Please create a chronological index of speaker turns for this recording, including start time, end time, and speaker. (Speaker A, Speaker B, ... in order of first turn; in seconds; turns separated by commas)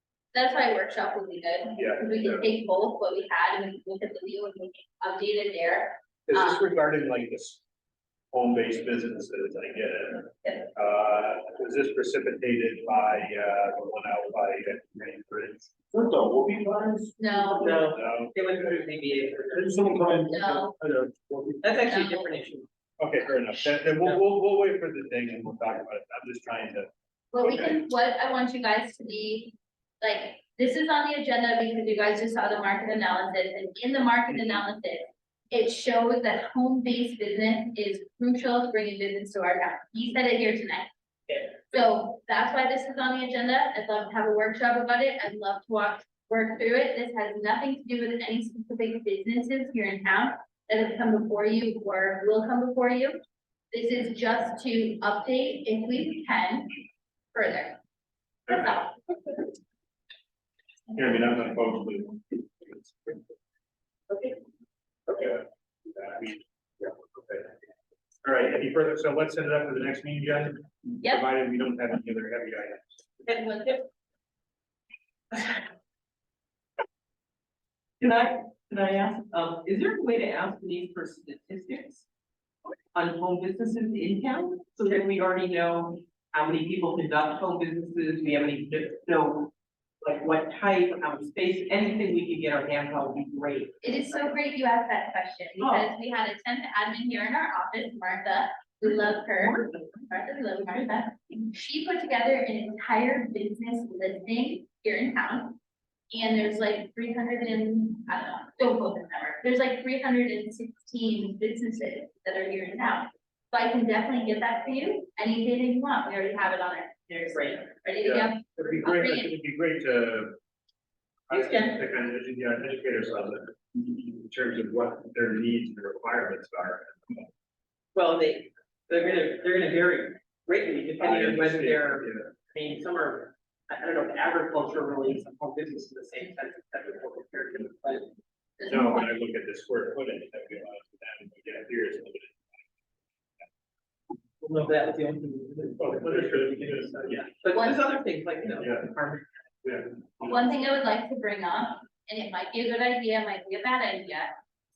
Speaker A: 0.3-6.7, Speaker B: 1.8-2.4, Speaker B: 6.3-7.6, Speaker B: 8.3-18.8, Speaker A: 17.2-18.0, Speaker C: 17.6-20.2, Speaker B: 19.5-21.7, Speaker A: 20.3-20.8, Speaker C: 21.6-22.7, Speaker A: 21.8-22.3, Speaker B: 23.0-26.9, Speaker A: 27.3-40.9, Speaker B: 27.4-27.7, Speaker A: 41.7-53.2, Speaker A: 53.7-56.8, Speaker A: 57.3-57.8, Speaker A: 58.5-58.9, Speaker B: 60.9-63.2, Speaker C: 64.1-64.4, Speaker C: 65.1-65.4, Speaker B: 65.9-67.5, Speaker B: 68.2-73.0, Speaker C: 73.2-73.9, Speaker C: 75.3-75.6, Speaker C: 78.0-82.0, Speaker C: 82.9-93.8, Speaker A: 93.8-105.6, Speaker C: 95.6-95.9, Speaker C: 99.4-99.8, Speaker A: 106.1-119.3, Speaker C: 117.3-117.6, Speaker B: 118.0-120.3, Speaker B: 121.3-127.3, Speaker C: 121.3-121.7, Speaker C: 127.9-138.1, Speaker B: 131.0-132.3, Speaker A: 138.6-139.1, Speaker B: 138.7-142.6, Speaker C: 144.4-149.3, Speaker B: 145.8-147.3, Speaker B: 148.6-148.8, Speaker B: 149.6-150.4, Speaker A: 150.2-154.3